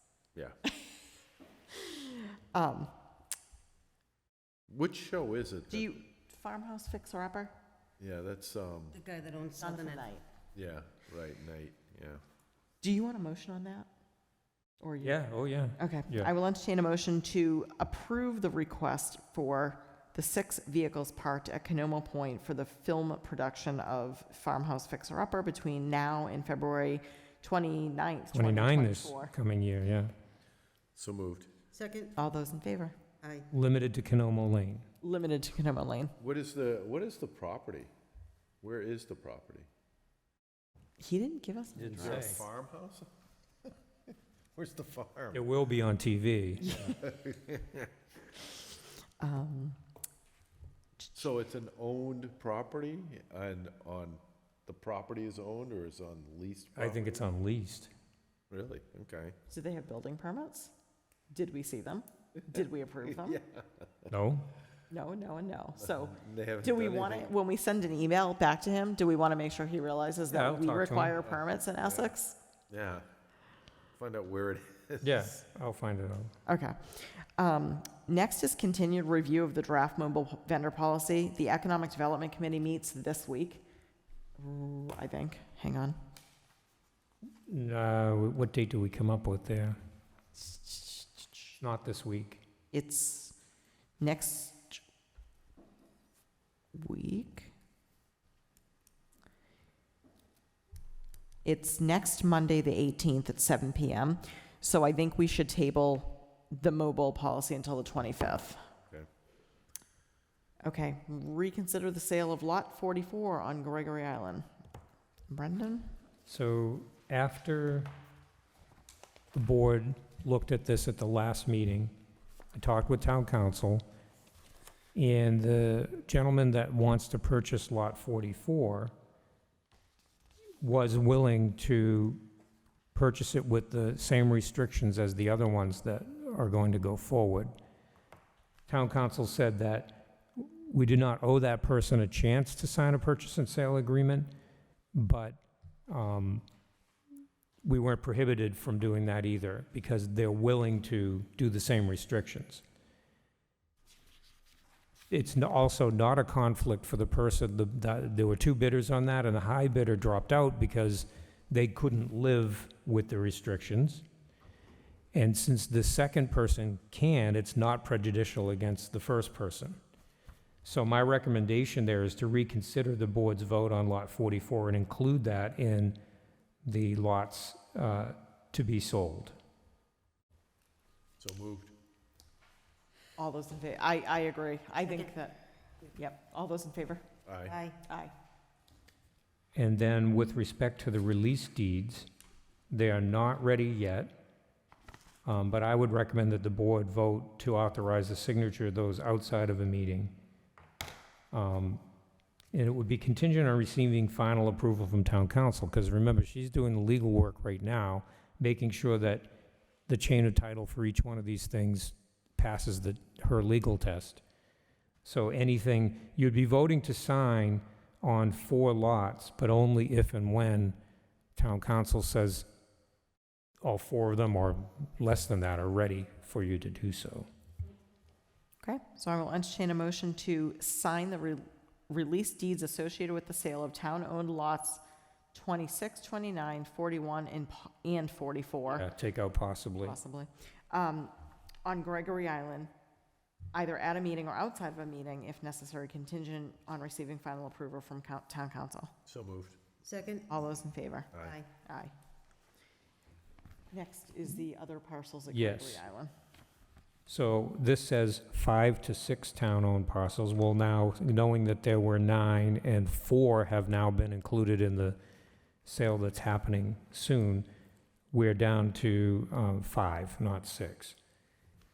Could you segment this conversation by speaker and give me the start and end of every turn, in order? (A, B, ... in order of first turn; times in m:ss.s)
0:01.7-0:02.9 A
0:04.7-0:06.0 B
0:05.7-0:07.5 A
0:08.0-0:09.0 B
0:09.0-0:10.0 C
0:09.6-0:10.2 A
0:10.5-0:12.2 B
0:12.8-0:13.9 A
0:14.8-0:15.2 A
0:15.0-0:16.3 D
0:15.8-0:29.3 A
0:28.3-0:30.1 D
0:31.0-0:31.5 B
0:31.7-0:32.1 C
0:32.2-0:33.0 A
0:33.2-0:33.5 C
0:33.5-0:34.8 D
0:35.0-0:36.1 A
0:36.2-0:37.9 B
0:38.6-0:39.7 B
0:41.0-0:42.4 A
0:41.8-0:42.4 D
0:41.9-0:43.1 B
0:44.5-0:45.4 B
0:45.3-0:46.8 D
0:46.6-0:47.0 A
0:46.7-0:47.9 B
0:49.2-0:49.8 A
0:51.1-0:57.2 B
0:56.8-0:57.9 D
0:58.5-0:59.3 B
0:59.5-1:00.7 A
1:01.3-1:03.4 A
1:03.2-1:04.1 B
1:04.1-1:04.5 D
1:04.9-1:12.4 A
1:05.8-1:07.3 B
1:10.3-1:11.2 D
1:11.2-1:12.1 B
1:12.7-1:13.0 B
1:14.0-1:15.3 B
1:15.0-1:16.3 D
1:16.4-1:23.6 A
1:24.4-1:26.0 A
1:27.5-1:29.8 D
1:30.3-1:31.5 A
1:31.6-1:32.4 D
1:32.7-1:33.4 A
1:34.0-1:34.8 A
1:36.7-1:37.5 A
1:41.4-1:48.6 A
1:50.6-1:54.5 A
1:55.3-1:55.9 A
1:56.3-1:57.9 D
1:59.3-2:01.9 D
2:02.5-2:03.8 D
2:04.9-2:08.9 D
2:10.6-2:12.2 D
2:12.9-2:17.5 D
2:18.7-2:24.3 D
2:24.9-2:26.4 D
2:27.6-2:32.6 D
2:35.1-2:44.0 D
2:45.1-2:49.8 D
2:50.6-2:56.0 D
2:56.6-2:59.4 D
3:01.2-3:01.7 B
3:03.2-3:07.1 A
3:07.2-3:07.6 B
3:07.7-3:08.1 A
3:09.5-3:12.1 D
3:12.7-3:14.1 D
3:15.2-3:20.2 D
3:21.3-3:21.8 D
3:22.5-3:29.3 D
3:29.9-3:34.2 D
3:35.0-3:40.8 D
3:41.4-3:42.5 D
3:43.6-3:47.3 D
3:48.6-3:54.8 A
3:55.3-3:58.8 A
3:58.7-4:00.0 D
3:59.8-4:01.1 A
4:01.6-4:02.7 A
4:03.5-4:08.9 A
4:09.0-4:09.6 B
4:09.8-4:10.3 C
4:10.3-4:11.9 A
4:13.7-4:16.1 A
4:15.3-4:15.8 D
4:17.1-4:25.0 D
4:25.6-4:27.5 D
4:28.1-4:31.0 D